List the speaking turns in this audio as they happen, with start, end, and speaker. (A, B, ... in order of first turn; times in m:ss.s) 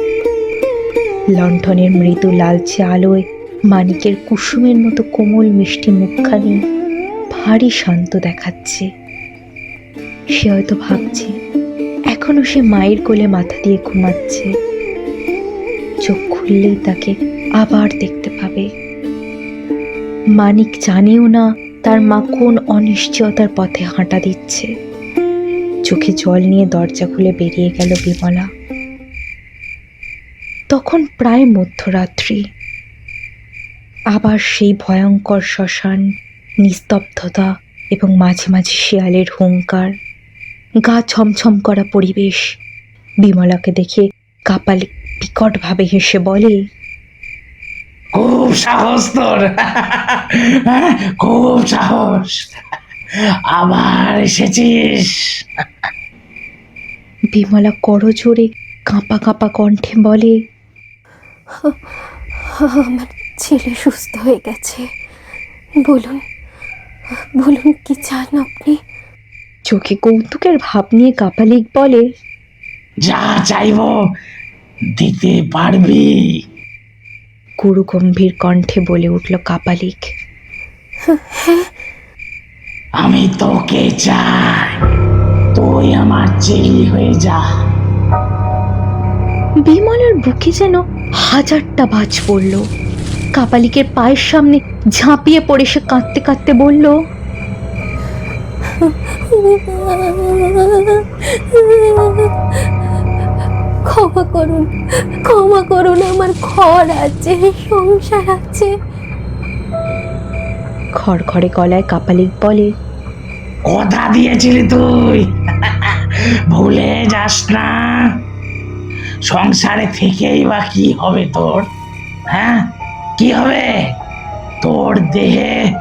0:01.4-0:03.2 A
0:03.7-0:06.6 A
0:07.3-0:08.9 A
0:10.4-0:11.3 A
0:12.1-0:14.5 A
0:16.0-0:18.6 A
0:20.4-0:24.7 A
0:25.9-0:28.5 A
0:30.7-0:32.4 A
0:34.1-0:36.0 A
0:36.6-0:39.9 A
0:40.9-0:42.5 A
0:43.2-0:46.6 A
0:48.2-0:52.4 B
0:53.5-0:55.2 B
0:57.3-1:00.3 A
1:02.5-1:04.8 C
1:05.8-1:06.2 C
1:07.4-1:08.8 C
1:09.7-1:12.0 A
1:13.0-1:13.9 B
1:15.0-1:16.1 B
1:17.6-1:20.1 A
1:21.0-1:21.7 C
1:23.0-1:24.8 B
1:25.6-1:27.4 B
1:29.7-1:32.6 A
1:33.4-1:36.9 A
1:38.7-1:42.3 C
1:43.9-1:44.7 C
1:45.3-1:48.7 C
1:51.0-1:52.7 A
1:53.7-1:58.1 B
1:59.3-2:01.7 B
2:02.3-2:02.6 B
2:03.2-2:03.7 B
2:04.6-2:05.6 B